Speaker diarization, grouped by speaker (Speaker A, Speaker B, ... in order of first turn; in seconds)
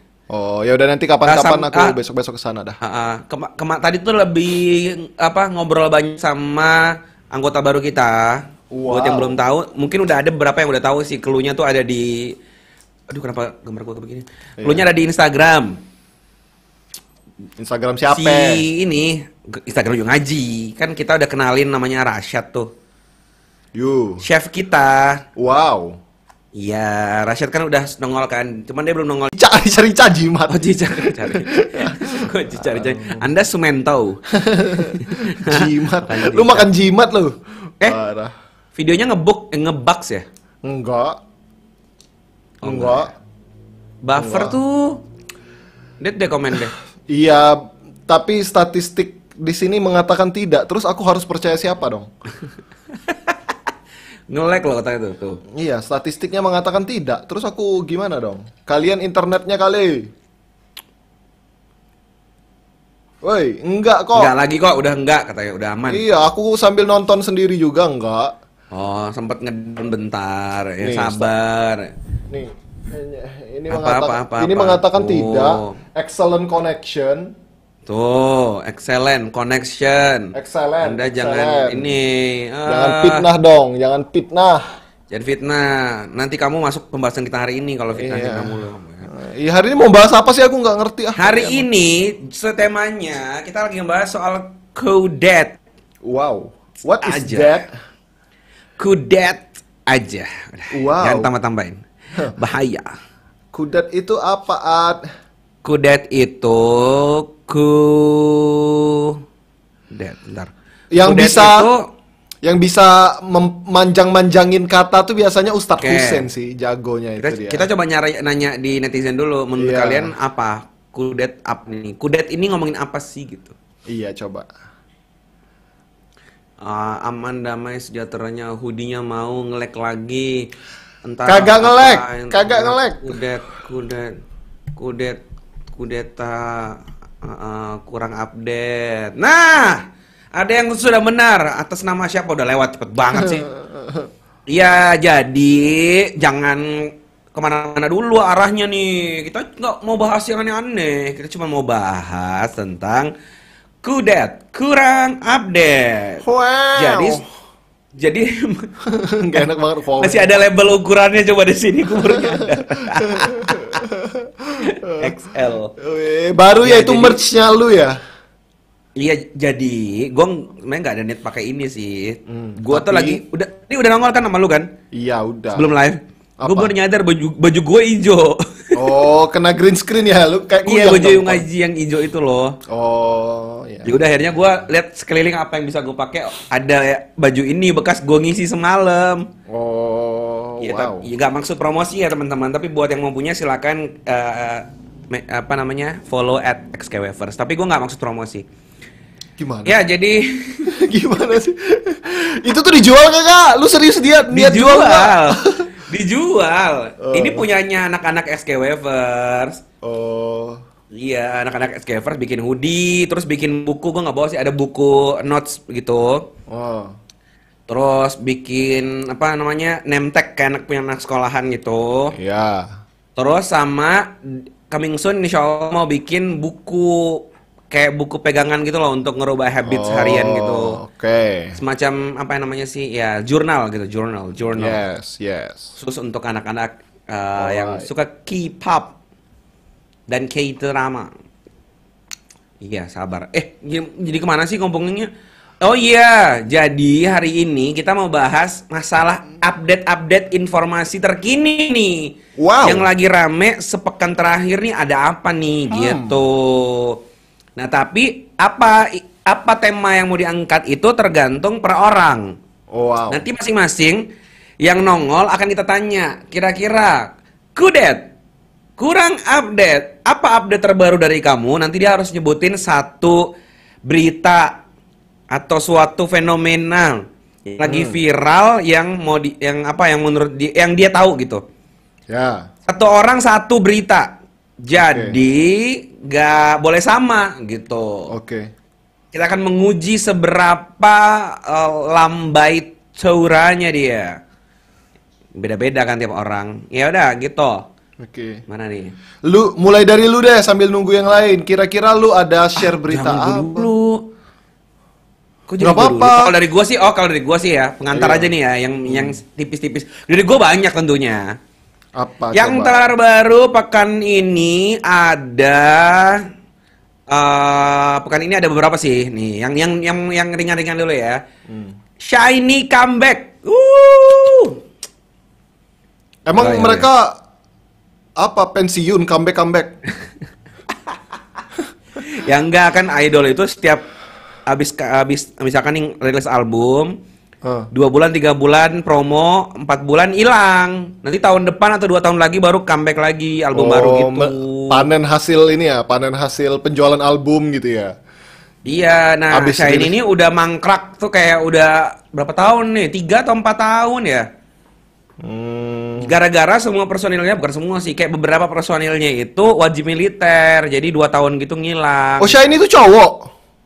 Speaker A: 0.3-2.8, 8.7-9.4, 14.6-14.9, 17.6-18.6, 23.8-24.2, 25.4-26.0, 29.4-33.2, 34.4-38.3, 40.6-41.2, 42.6-43.1, 44.2-44.6, 47.1-52.1, 55.5-60.1, 63.2-64.3, 65.9-68.3, 70.8-71.3, 72.3-77.3, 80.3-81.9, 82.7-84.7, 87.9-91.7, 96.0-97.7, 100.7-101.3, 103.5-105.0, 110.9-111.7, 112.4-117.7, 119.6-120.1, 123.9-124.5, 131.3-133.2, 143.1-144.1, 156.2-157.2, 158.9-160.3, 162.1-165.2, 165.8-168.0, 172.3-173.2, 174.9-175.7, 176.4-176.7, 178.8-181.4, 182.7-183.9, 189.5-191.1, 199.4-199.8, 200.7-205.6, 207.0-207.5, 209.8-210.6, 216.5-216.9, 222.2-222.7, 229.7-231.6, 234.6-235.7, 237.4-237.9, 252.4-252.9, 255.7-256.2, 262.7-263.2, 277.6-278.0, 282.1-282.5, 284.8-285.1, 288.1-288.5, 298.0-298.4, 299.2-303.7, 305.6-306.4, 307.9-308.3, 308.9-309.2, 312.0-312.8, 321.5-321.7, 326.3-327.2, 328.2-329.7, 343.5-348.0, 349.3-349.9, 355.2-356.1, 362.2-363.3
Speaker B: 1.3-1.9, 2.8-12.3, 13.1-15.7, 18.1-22.7, 24.2-25.2, 26.6-29.3, 30.5-34.2, 34.9-36.7, 38.8-40.3, 42.6-43.0, 44.0-45.0, 46.0-46.7, 53.1-53.4, 54.3-55.4, 64.2-66.0, 68.7-71.9, 73.7-75.8, 77.9-83.2, 85.1-89.1, 91.2-95.6, 97.0-97.5, 98.8-101.8, 102.4-102.9, 105.6-109.1, 109.9-110.5, 111.0-111.8, 115.8-116.2, 117.2-123.5, 126.6-130.4, 131.1-134.1, 134.8-135.2, 135.8-139.8, 140.3-143.5, 144.5-153.1, 153.8-156.2, 156.8-157.2, 158.0-158.7, 160.0-163.8, 164.7-165.7, 166.6-167.2, 169.0-174.7, 175.5-178.8, 180.7-182.6, 183.8-189.3, 190.6-198.4, 199.7-200.6, 204.3-209.6, 210.9-216.3, 217.7-222.2, 223.2-224.2, 224.7-230.8, 231.6-234.8, 235.8-238.9, 240.1-241.1, 242.6-245.1, 245.6-257.0, 257.6-262.4, 263.1-264.0, 264.6-268.1, 268.8-273.3, 273.9-274.6, 275.3-281.4, 282.7-284.1, 284.6-288.1, 289.1-294.2, 295.4-297.6, 298.5-298.9, 302.9-304.0, 305.5-311.3, 312.3-316.2, 317.1-321.2, 322.1-324.6, 326.4-326.9, 332.2-333.8, 334.5-336.9, 337.7-344.9, 348.7-354.3, 356.0-362.4